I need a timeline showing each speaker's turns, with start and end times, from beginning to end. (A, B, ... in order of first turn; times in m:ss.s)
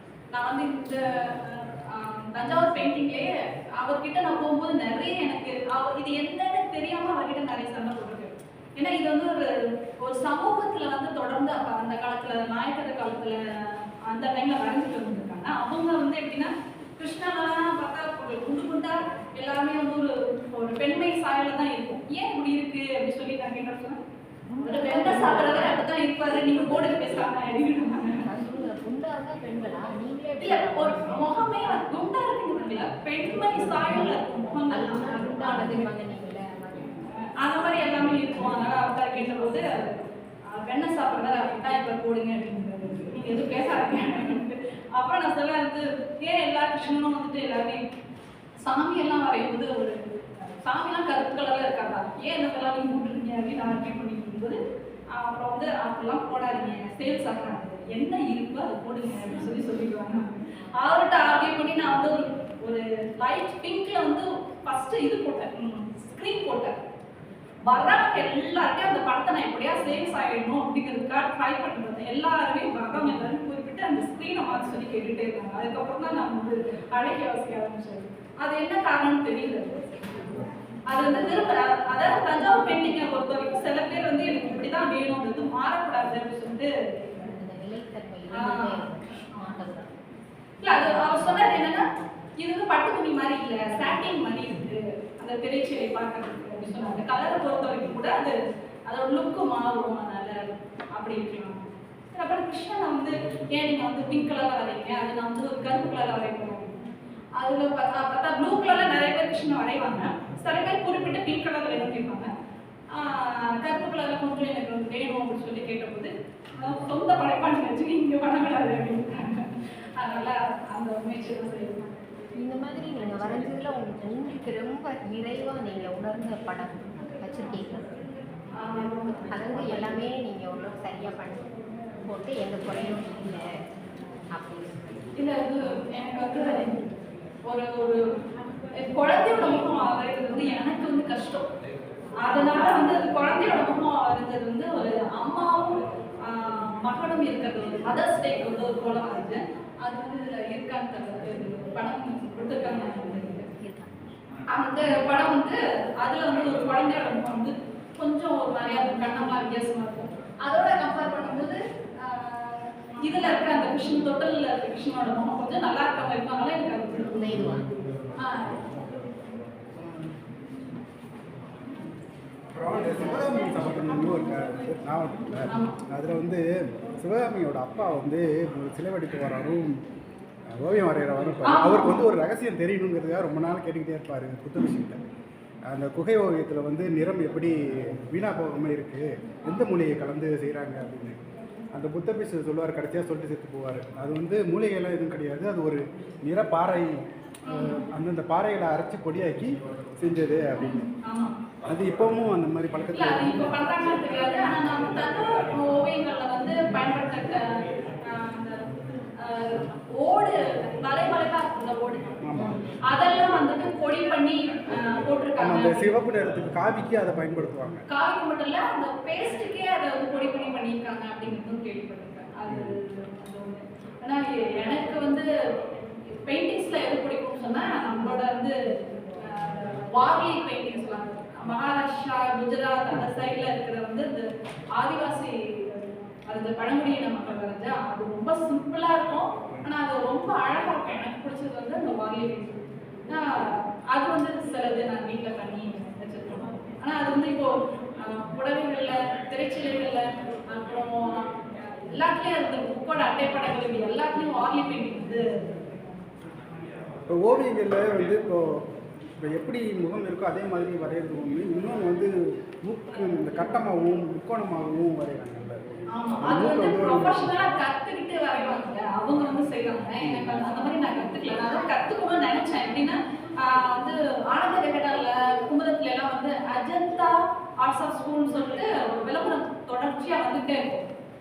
0:00.3-0:13.4 A
0:14.0-0:24.0 A
0:24.5-0:25.8 B
0:24.6-0:28.2 A
0:28.2-0:31.4 B
0:30.4-0:35.9 A
0:33.8-0:34.1 B
0:34.7-0:37.2 B
0:37.4-0:47.8 A
0:48.6-0:54.6 A
0:55.1-1:06.8 A
1:07.6-1:19.9 A
1:19.9-1:20.3 B
1:20.9-1:27.3 A
1:27.2-1:30.0 B
1:28.3-1:28.8 A
1:30.6-1:32.1 B
1:30.6-1:31.8 A
1:32.4-1:46.8 A
1:47.4-1:52.3 A
1:52.9-2:01.9 A
2:02.4-2:07.9 B
2:08.6-2:09.8 A
2:09.3-2:11.5 B
2:12.0-2:13.4 B
2:14.3-2:14.8 B
2:15.2-2:16.9 A
2:17.4-2:18.0 A
2:18.7-2:21.4 A
2:22.2-2:33.5 A
2:33.6-2:33.9 B
2:34.5-2:47.1 A
2:47.1-2:47.7 B
2:48.2-2:48.6 A
2:52.5-2:56.4 C
2:55.5-2:55.8 A
2:57.0-2:59.8 C
3:00.5-3:05.0 C
3:01.4-3:02.0 A
3:05.7-3:07.5 C
3:08.1-3:11.2 C
3:11.7-3:20.8 C
3:17.4-3:17.8 A
3:20.6-3:21.4 A
3:21.6-3:23.5 C
3:22.9-3:27.5 A
3:28.1-3:28.6 A
3:29.2-3:32.1 A
3:32.2-3:32.6 C
3:32.4-3:32.6 B
3:32.8-3:35.9 A
3:35.4-3:37.8 C
3:37.9-3:45.3 A
3:42.5-3:42.8 C
3:46.2-3:48.6 A
3:49.2-4:07.5 A
4:08.0-4:11.3 A
4:11.9-4:15.3 A
4:17.1-4:18.6 C
4:19.2-4:22.1 C
4:22.6-4:27.3 C
4:25.9-4:40.8 A
4:31.4-4:31.7 B